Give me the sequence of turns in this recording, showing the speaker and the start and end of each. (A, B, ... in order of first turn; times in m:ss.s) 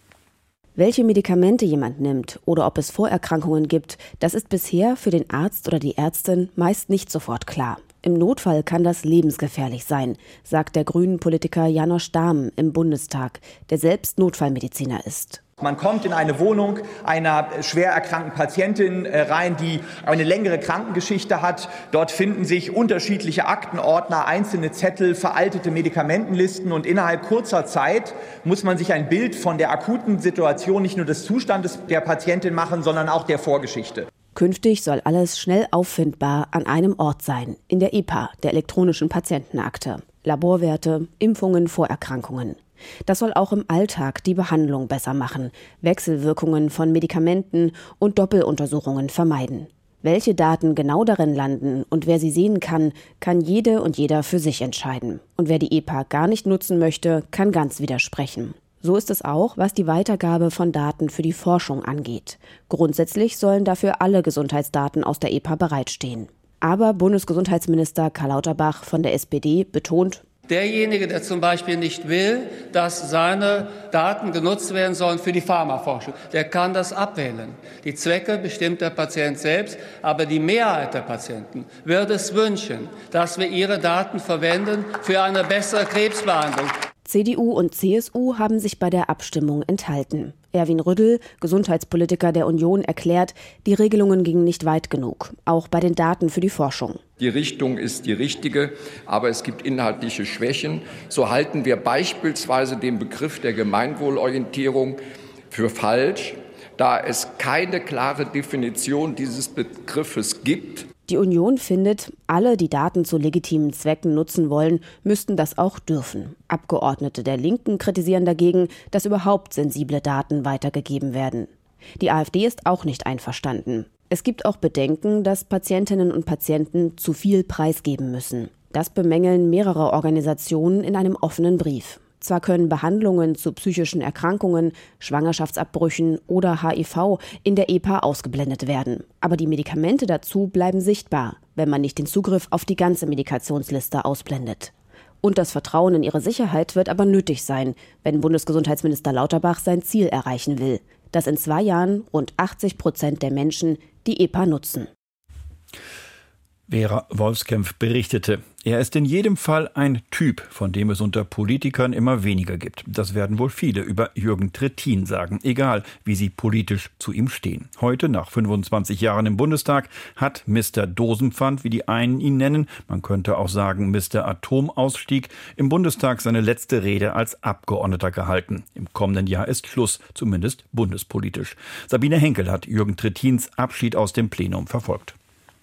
0:00.8-0:15.4 A
0:15.6-0:34.1 B
0:34.3-1:10.2 A
1:10.5-1:26.7 C
1:27.0-1:37.0 A
1:37.2-1:45.0 D
1:45.5-1:50.8 D
1:51.1-2:24.7 A
2:25.2-2:34.9 A
2:36.7-3:05.1 E